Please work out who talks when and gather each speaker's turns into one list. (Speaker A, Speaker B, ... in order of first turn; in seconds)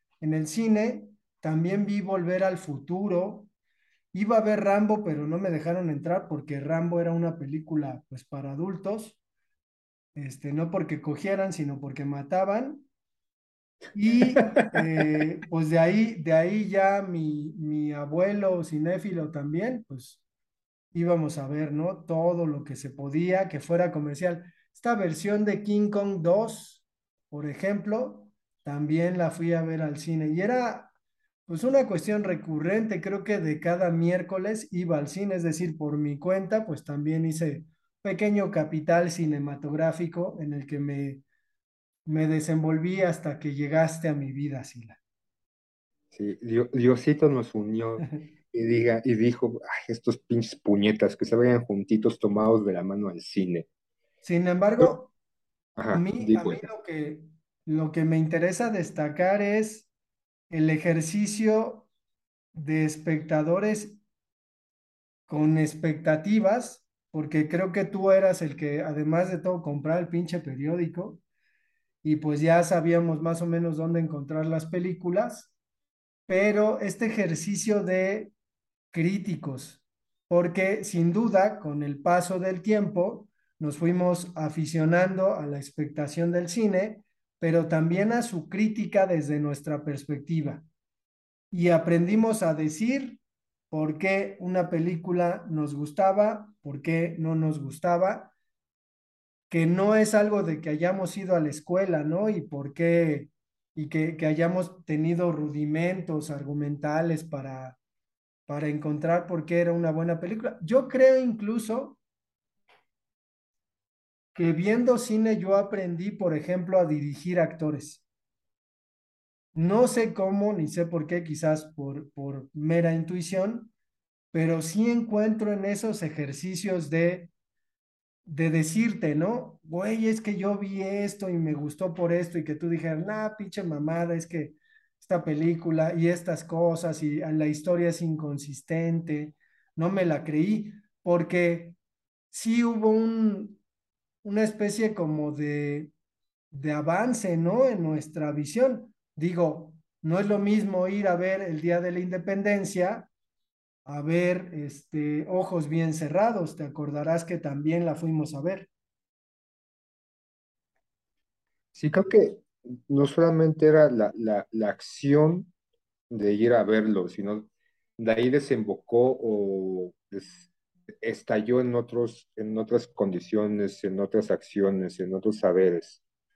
Speaker A: 0.2-3.5, 4.1-9.2, 10.2-12.9, 13.9-20.2, 20.9-30.9, 31.5-41.2, 42.1-45.0, 54.2-55.1, 55.9-59.9, 60.5-61.9, 62.5-64.0, 65.3-71.2, 72.0-75.5, 76.3-78.3, 78.9-90.7, 91.5-98.3, 99.5-107.8, 108.5-112.0, 114.3-118.0, 119.5-123.7, 124.3-127.3, 128.2-141.8, 142.3-143.6, 144.2-145.9, 146.5-153.1, 153.9-158.7
Speaker B: 14.3-14.8, 46.1-53.7, 55.8-56.7, 161.7-165.5, 166.1-170.5, 171.0-176.0